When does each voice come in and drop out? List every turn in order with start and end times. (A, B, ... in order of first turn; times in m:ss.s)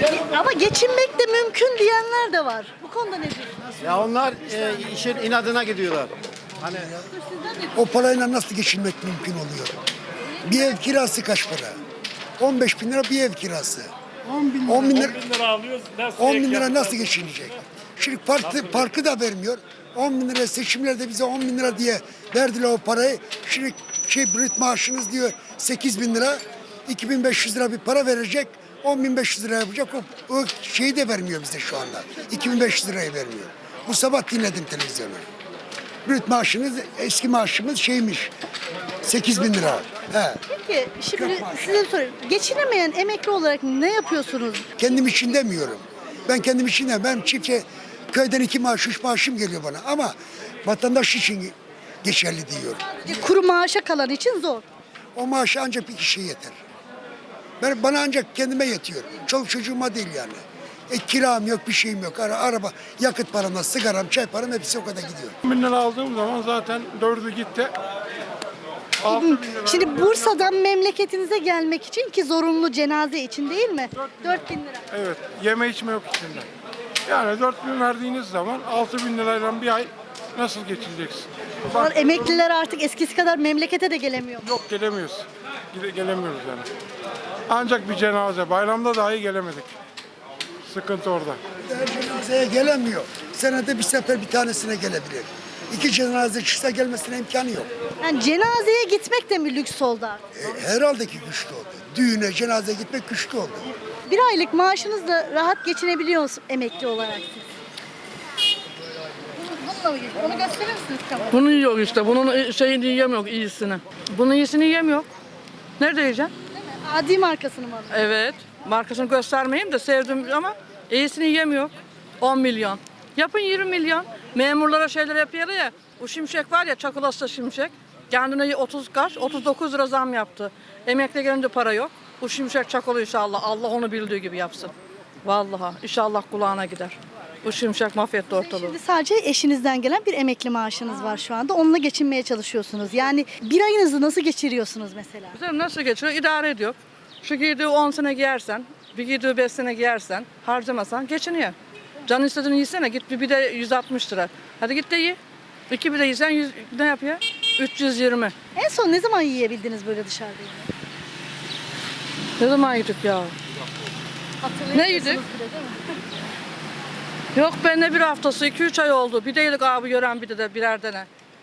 0:00.2-0:03.5 A
0:03.8-0:06.9 B
0:06.7-0:07.1 C
0:07.1-0:07.7 A
0:07.8-0:09.8 C
0:10.4-0:11.8 C
0:12.4-0:13.9 C
0:14.6-0:15.4 C
0:16.0-0:35.2 C
0:36.1-0:38.3 C
0:39.0-0:40.4 C
0:40.5-0:44.7 A
0:41.1-0:41.8 C
0:44.8-0:53.2 C
0:52.9-0:54.6 A
0:55.2-0:56.6 C
0:57.6-1:05.4 C
1:05.4-1:07.7 D
1:09.0-1:10.5 D
1:09.1-1:14.8 A
1:14.0-1:14.4 D
1:14.9-1:16.5 D
1:17.1-1:21.3 D
1:21.7-1:24.6 A
1:24.5-1:26.7 D
1:27.5-1:29.7 D
1:30.6-1:31.4 D
1:31.7-1:37.7 C
1:38.0-1:40.2 A
1:40.4-1:43.7 C
1:44.1-1:47.5 A
1:49.4-1:51.2 A
1:51.3-1:55.1 E
1:55.8-1:56.3 E
1:56.6-1:58.1 A
1:57.9-2:14.7 E
2:15.2-2:18.8 E
2:18.3-2:25.3 A
2:25.4-2:31.6 E
2:32.1-2:35.2 E
2:35.7-2:38.3 E
2:38.6-2:40.7 A
2:42.4-2:43.3 E
2:44.4-2:45.9 A
2:44.7-2:45.2 E
2:47.4-2:51.1 E